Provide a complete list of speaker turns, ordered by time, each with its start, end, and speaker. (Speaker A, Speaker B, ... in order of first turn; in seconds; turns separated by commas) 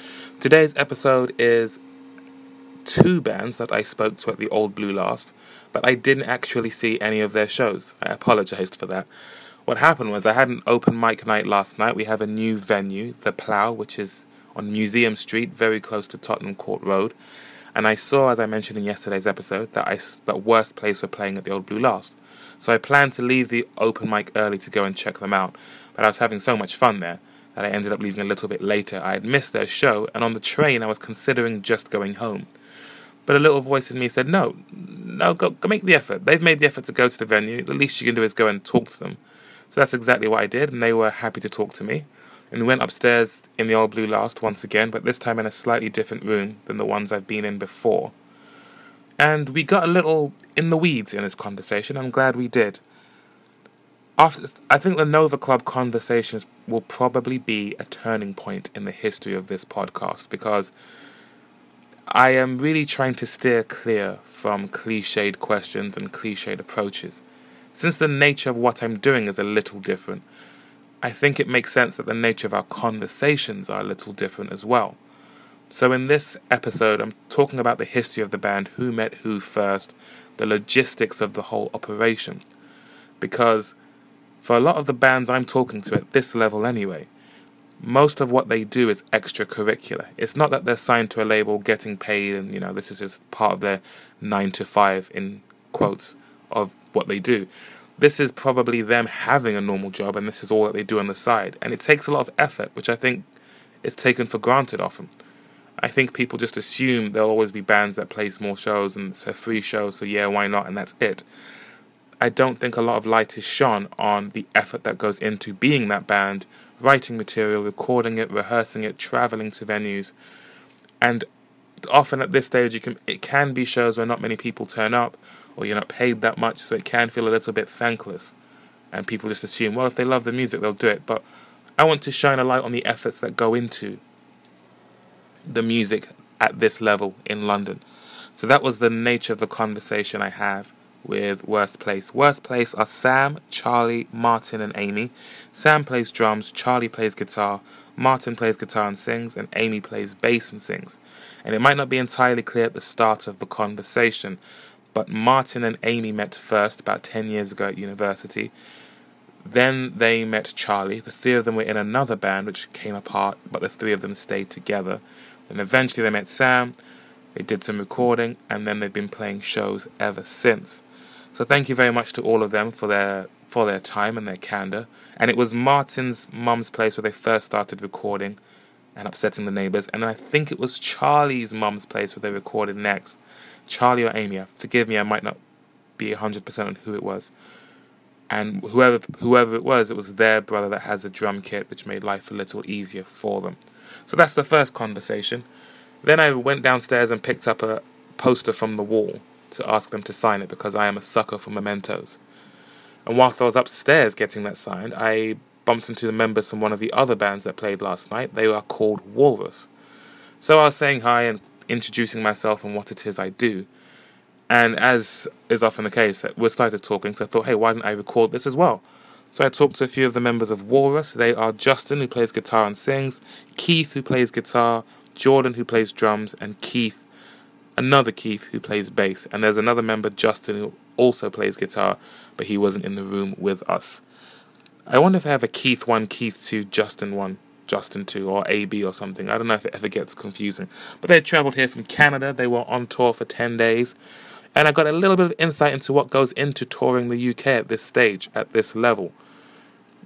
Speaker A: 0.4-1.8, Speaker A: 2.8-9.1, Speaker A: 9.7-17.1, Speaker A: 17.7-32.5, Speaker A: 33.2-39.2, Speaker A: 39.7-48.1, Speaker A: 49.2-52.8, Speaker A: 54.2-60.7, Speaker A: 62.1-67.2, Speaker A: 67.7-70.2, Speaker A: 71.0-75.0, Speaker A: 75.7-82.4, Speaker A: 83.2-83.7, Speaker A: 84.4-87.1, Speaker A: 87.8-103.2, Speaker A: 103.8-105.1, Speaker A: 105.8-111.2, Speaker A: 112.2-120.1, Speaker A: 121.0-121.2, Speaker A: 121.8-128.3, Speaker A: 128.9-131.2, Speaker A: 131.8-134.0, Speaker A: 135.5-137.8, Speaker A: 138.3-154.4, Speaker A: 154.9-158.5, Speaker A: 159.4-166.7, Speaker A: 167.3-170.8, Speaker A: 171.3-178.4, Speaker A: 178.9-185.4, Speaker A: 186.0-187.3, Speaker A: 188.3-195.4, Speaker A: 196.0-202.2, Speaker A: 203.1-209.7, Speaker A: 210.4-213.7, Speaker A: 214.5-227.0, Speaker A: 227.8-234.0, Speaker A: 234.9-243.9, Speaker A: 244.5-249.1